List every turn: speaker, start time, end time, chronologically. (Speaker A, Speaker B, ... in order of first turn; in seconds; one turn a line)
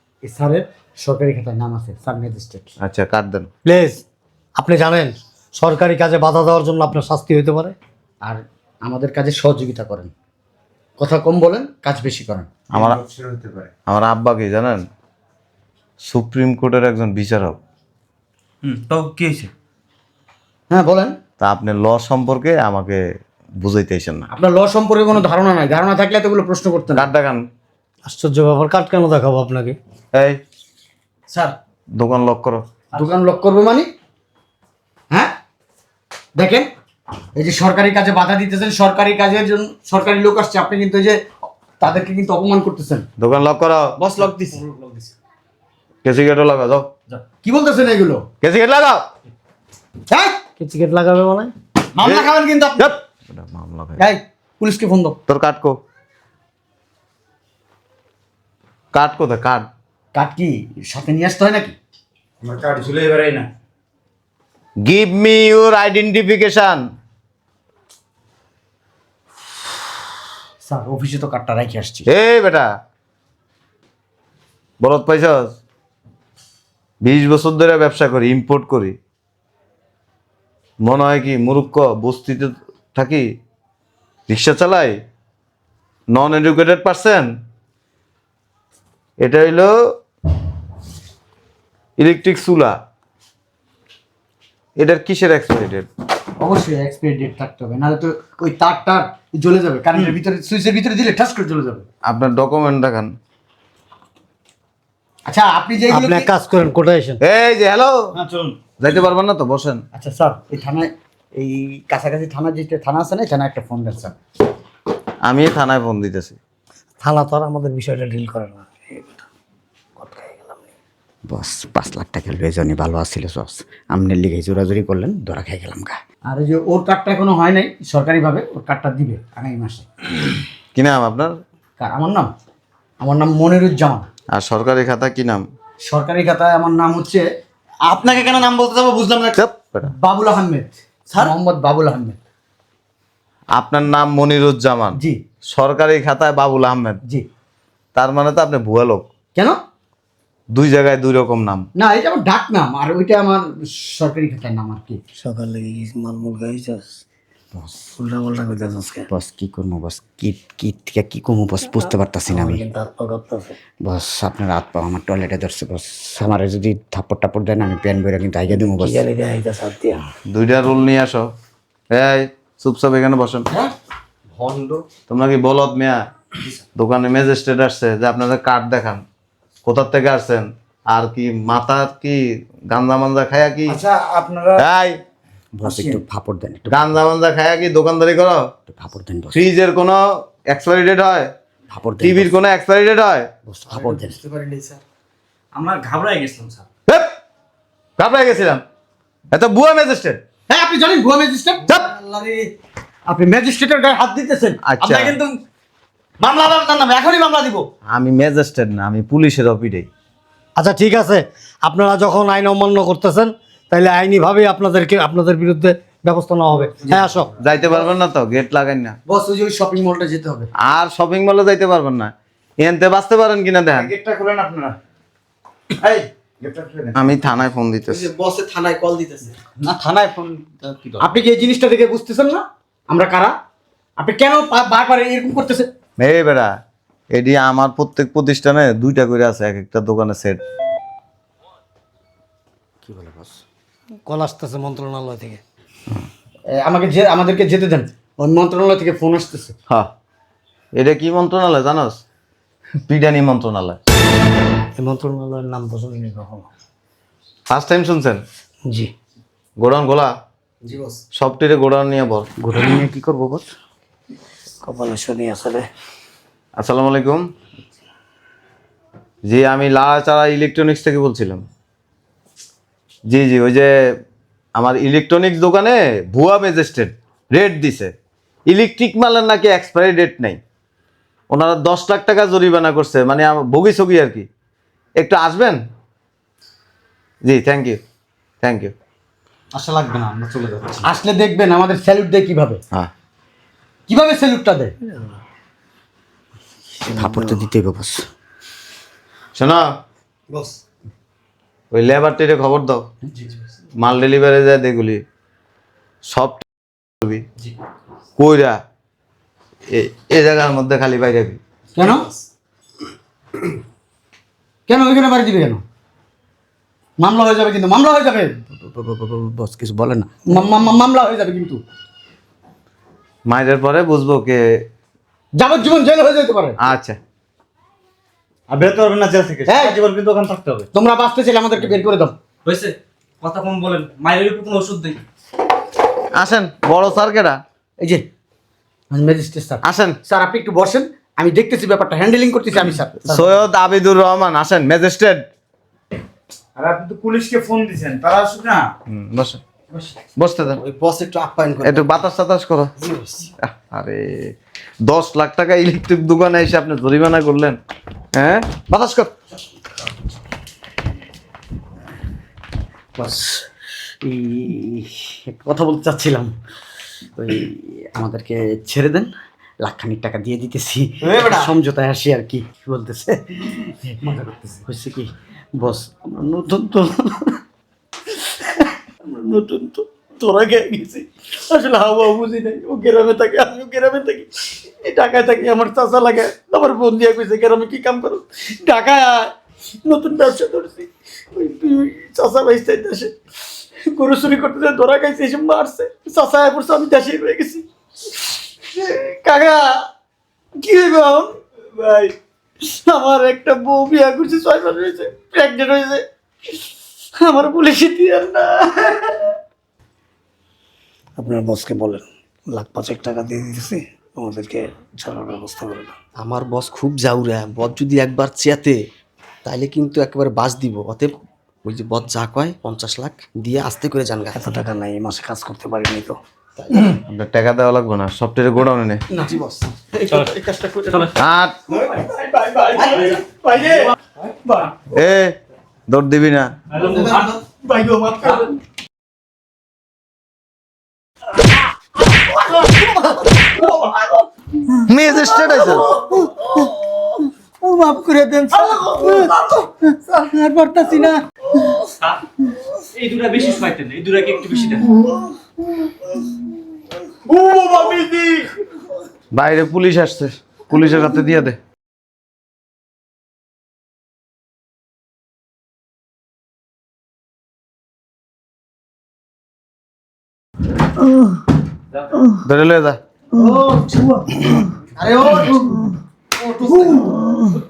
Speaker A: 0.2-2.7
Speaker B: 2.8-3.5
Speaker C: 3.6-4.0
Speaker C: 4.5-7.8
Speaker A: 8.2-10.1
Speaker A: 11.0-12.6
Speaker B: 12.7-13.0
Speaker D: 12.7-13.7
Speaker B: 13.8-14.8
Speaker B: 16.1-17.6
Speaker D: 18.6-19.5
Speaker A: 20.7-21.1
Speaker B: 21.4-23.0
Speaker B: 23.6-24.3
Speaker A: 24.3-27.1
Speaker B: 26.9-27.5
Speaker C: 28.1-29.8
Speaker B: 30.1-30.4
Speaker B: 32.0-32.6
Speaker A: 32.9-33.9
Speaker A: 36.4-36.7
Speaker A: 37.3-41.2
Speaker A: 41.8-43.1
Speaker B: 43.2-44.0
Speaker E: 44.0-45.1
Speaker B: 46.0-46.9
Speaker A: 47.4-48.2
Speaker B: 48.4-49.0
Speaker A: 50.1-50.4
Speaker C: 50.6-51.5
Speaker B: 52.0-54.0
Speaker A: 52.0-52.3
Speaker A: 54.0-55.2
Speaker B: 55.3-55.8
Speaker B: 58.9-59.7
Speaker A: 60.1-61.8
Speaker D: 62.4-63.5
Speaker B: 64.8-66.8
Speaker A: 70.6-72.1
Speaker B: 72.1-72.7
Speaker B: 74.8-75.5
Speaker B: 77.0-79.0
Speaker B: 80.8-83.3
Speaker B: 84.3-85.0
Speaker B: 86.1-87.3
Speaker B: 89.2-89.7
Speaker B: 92.0-92.8
Speaker B: 94.8-95.9
Speaker A: 96.4-101.8
Speaker B: 102.0-103.1
Speaker A: 105.2-106.3
Speaker C: 105.9-107.2
Speaker B: 107.2-108.0
Speaker A: 108.2-108.5
Speaker B: 108.8-109.8
Speaker A: 109.9-114.1
Speaker B: 115.2-116.4
Speaker C: 117.0-119.2
Speaker C: 120.0-120.7
Speaker A: 121.3-129.9
Speaker B: 130.7-131.4
Speaker A: 131.8-132.3
Speaker A: 133.0-134.1
Speaker B: 134.3-135.4
Speaker A: 135.8-137.2
Speaker D: 137.8-139.3
Speaker B: 139.3-139.9
Speaker A: 139.8-142.2
Speaker B: 143.5-147.0
Speaker A: 144.9-145.2
Speaker B: 147.9-149.1
Speaker B: 150.5-151.7
Speaker A: 151.7-155.0
Speaker C: 155.2-157.0
Speaker C: 157.8-159.1
Speaker A: 159.1-162.6
Speaker C: 162.3-163.5
Speaker A: 163.8-169.0
Speaker C: 168.5-170.0
Speaker B: 170.3-171.3
Speaker B: 171.9-173.5
Speaker B: 175.1-176.0
Speaker B: 176.8-179.0
Speaker B: 179.6-183.8
Speaker A: 183.7-184.6
Speaker D: 184.1-184.5
Speaker B: 184.6-185.0
Speaker A: 185.5-187.0
Speaker D: 185.7-186.0
Speaker B: 186.7-188.4
Speaker A: 188.7-189.4
Speaker B: 189.3-191.3
Speaker A: 191.7-192.3
Speaker B: 192.0-193.3
Speaker A: 193.5-194.2
Speaker E: 193.7-194.8
Speaker D: 195.5-196.6
Speaker B: 196.9-197.1
Speaker B: 198.0-198.6
Speaker B: 199.3-200.2
Speaker A: 200.5-201.9
Speaker E: 201.7-202.5
Speaker A: 203.1-205.4
Speaker B: 204.6-205.2
Speaker A: 206.2-207.7
Speaker B: 207.9-209.9
Speaker C: 210.6-217.3
Speaker B: 217.3-219.0
Speaker A: 219.1-220.5
Speaker B: 220.6-223.9
Speaker D: 223.8-224.7
Speaker D: 225.8-227.0
Speaker B: 226.9-228.1
Speaker E: 227.9-229.4
Speaker D: 229.6-231.1
Speaker A: 231.0-233.3
Speaker A: 234.0-235.7
Speaker B: 236.0-236.5
Speaker B: 237.1-240.4
Speaker A: 242.8-243.4
Speaker C: 244.1-245.4
Speaker A: 246.5-249.5
Speaker B: 250.7-252.0
Speaker B: 252.9-253.8
Speaker C: 254.7-256.5
Speaker B: 257.5-258.2
Speaker B: 259.6-260.1
Speaker B: 261.1-262.3
Speaker A: 262.4-263.5
Speaker C: 264.6-265.6
Speaker B: 266.6-267.2
Speaker B: 269.2-271.4
Speaker B: 273.1-273.7
Speaker B: 274.6-277.9
Speaker B: 278.5-280.4
Speaker B: 281.3-284.3
Speaker B: 285.0-285.6
Speaker B: 287.2-287.8
Speaker B: 288.4-288.7
Speaker D: 289.5-290.8
Speaker A: 290.8-292.6
Speaker A: 293.9-294.7
Speaker C: 296.8-297.6
Speaker A: 296.9-298.0
Speaker B: 299.4-299.7
Speaker B: 301.7-302.9
Speaker B: 303.8-305.0
Speaker B: 306.1-306.4
Speaker B: 308.2-308.6
Speaker B: 309.7-311.4
Speaker A: 311.8-312.1
Speaker A: 314.7-315.6
Speaker A: 317.0-321.6
Speaker B: 323.2-324.6
Speaker A: 325.3-326.6
Speaker B: 326.6-327.0
Speaker B: 328.5-330.6
Speaker A: 329.4-329.8
Speaker D: 329.5-330.6
Speaker A: 330.7-332.1
Speaker D: 332.4-335.0
Speaker B: 336.1-337.4
Speaker A: 337.8-338.0
Speaker A: 338.9-343.3
Speaker B: 339.6-340.0
Speaker B: 343.0-345.2
Speaker D: 346.6-348.7
Speaker B: 348.9-349.4
Speaker B: 350.2-350.6
Speaker E: 350.6-352.0
Speaker B: 351.6-352.7
Speaker E: 352.8-353.3
Speaker B: 353.4-357.6
Speaker B: 358.1-358.5
Speaker A: 358.7-359.1
Speaker A: 363.0-363.4
Speaker A: 364.0-366.3
Speaker A: 367.2-377.4
Speaker E: 371.0-371.5
Speaker A: 379.0-389.3
Speaker A: 389.8-393.1
Speaker A: 393.8-397.6
Speaker A: 398.7-399.8
Speaker A: 400.6-406.0
Speaker A: 407.2-409.3
Speaker C: 411.2-415.9
Speaker E: 416.2-418.8
Speaker E: 419.4-421.1
Speaker E: 421.6-424.4
Speaker C: 424.3-426.2
Speaker E: 426.6-426.9
Speaker B: 426.9-429.0
Speaker E: 429.3-431.2
Speaker B: 431.2-431.6
Speaker D: 431.8-433.1
Speaker A: 432.3-433.8
Speaker B: 434.9-435.4
Speaker B: 435.9-436.6
Speaker D: 436.7-437.3
Speaker A: 436.8-438.4
Speaker D: 437.8-438.4
Speaker A: 442.3-444.2
Speaker B: 444.9-445.8
Speaker A: 445.6-447.0
Speaker A: 447.6-451.7
Speaker D: 452.9-454.9
Speaker D: 457.3-458.4
Speaker A: 457.3-458.4
Speaker B: 459.3-461.6
Speaker B: 472.4-473.0
Speaker A: 473.4-474.2
Speaker A: 475.0-475.8
Speaker A: 476.4-477.2